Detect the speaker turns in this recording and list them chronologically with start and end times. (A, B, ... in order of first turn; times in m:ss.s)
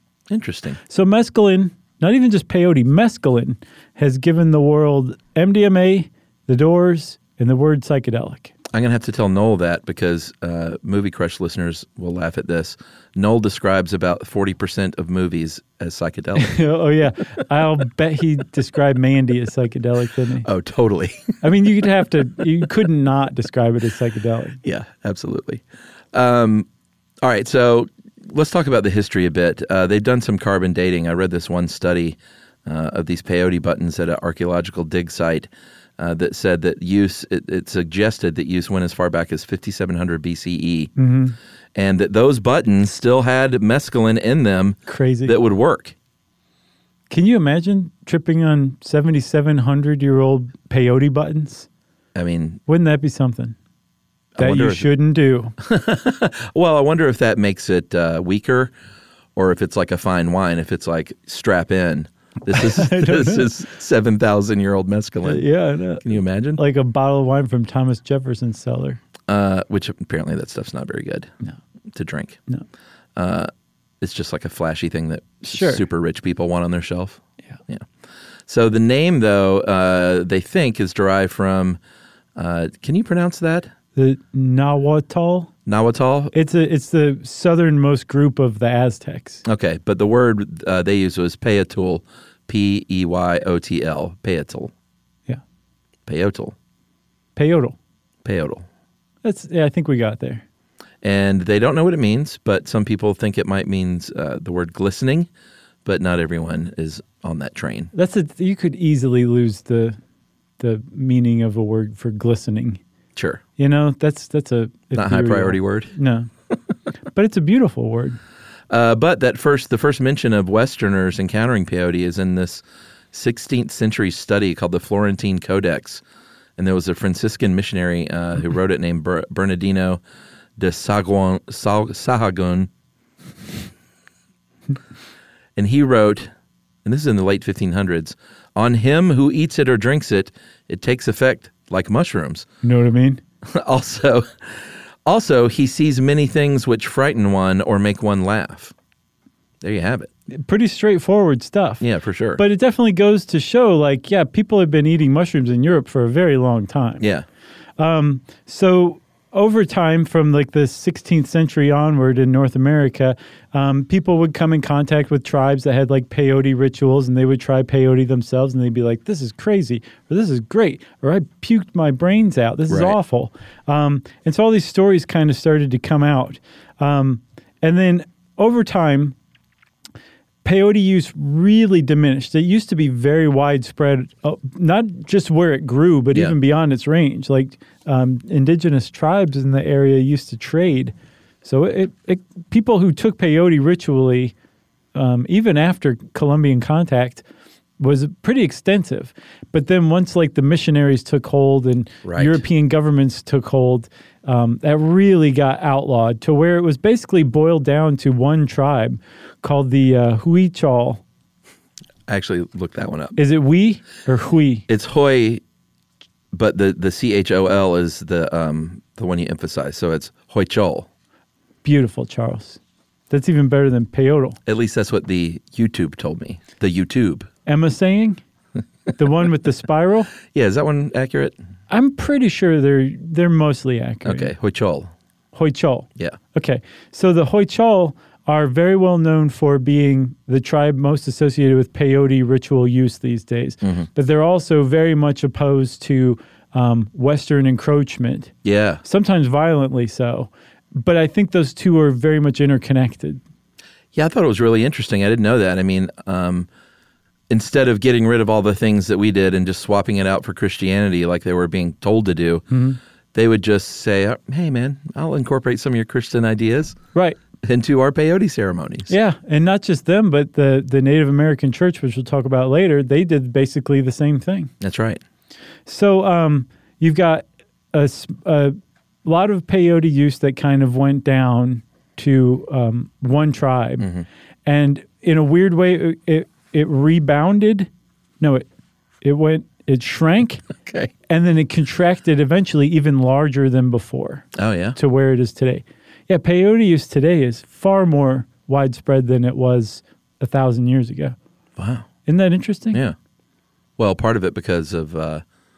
0:00.3-0:00.8 A
0:00.8-0:08.5 B
0:08.7-0:16.6 A
0:16.4-0:20.4 B
0:20.4-0:21.4 A
0:21.4-0:24.6 B
0:24.6-0:26.7 A
0:27.2-0:40.9 A
0:41.0-0:41.3 B
0:41.7-0:45.9 A
0:44.9-0:45.4 B
0:47.1-0:51.7 B
0:52.1-0:52.6 A
0:52.7-0:53.6 B
0:54.3-0:54.9 A
0:54.4-0:55.5 B
0:55.6-0:58.7 A
0:59.3-1:05.4 A
1:02.5-1:03.5 B
1:05.2-1:06.0 B
1:06.0-1:06.6 A
1:06.6-1:09.0 B
1:09.3-1:11.3 A
1:11.9-1:12.4 A
1:13.2-1:13.5 A
1:14.0-1:17.9 A
1:15.4-1:15.8 B
1:18.5-1:21.8 A
1:22.4-1:23.7 A
1:23.9-1:25.5 B
1:25.6-1:26.3 A
1:26.3-1:29.4 B
1:29.4-1:34.7 A
1:36.0-1:36.5 A
1:37.4-1:37.8 B
1:38.2-1:38.6 A
1:39.2-1:40.4 B
1:41.0-1:45.3 A
1:45.8-1:47.9 A
1:47.9-1:50.0 B
1:50.6-1:52.8 B
1:53.2-1:53.4 A
1:53.6-1:56.3 B
1:54.9-1:55.9 A
1:57.1-1:58.2 B
1:58.7-2:06.0 A
2:06.6-2:10.0 A
2:10.6-2:12.7 A
2:15.6-2:16.3 A
2:16.8-2:22.5 A
2:22.6-2:23.2 B
2:23.4-2:28.7 A
2:29.6-2:30.1 A
2:30.3-2:31.8 B
2:31.8-2:32.4 A
2:32.4-2:37.0 B
2:37.0-2:37.2 A
2:37.8-2:59.2 B
2:52.7-2:53.0 A
3:00.4-3:14.3 B
3:14.9-3:17.2 B
3:17.8-3:31.0 B
3:22.0-3:22.4 A
3:32.1-3:33.2 A
3:33.2-3:34.6 B
3:34.7-3:35.4 A
3:36.3-3:40.9 A
3:41.6-3:42.6 B
3:43.1-3:44.4 B
3:44.4-3:47.3 A
3:47.4-3:48.2 B
3:48.9-3:50.1 B
3:50.3-3:51.4 A
3:51.7-3:54.3 B
3:54.0-3:54.9 A
3:55.3-4:13.2 B
4:03.6-4:03.9 A
4:08.4-4:08.8 A
4:13.9-4:16.5 A
4:17.3-4:22.4 A
4:22.5-4:22.8 B
4:23.1-4:26.8 A
4:26.9-4:27.2 B
4:27.4-4:28.9 A
4:28.9-4:34.5 B
4:34.6-4:35.0 A
4:35.6-4:43.9 B
4:43.8-4:44.0 A
4:44.4-4:47.7 B
4:48.2-4:48.5 B
4:49.0-4:50.4 B
4:50.6-4:50.9 A
4:51.1-5:01.2 B
4:54.3-4:54.8 A
5:01.6-5:01.9 A
5:02.0-5:02.8 B
5:03.8-5:05.2 A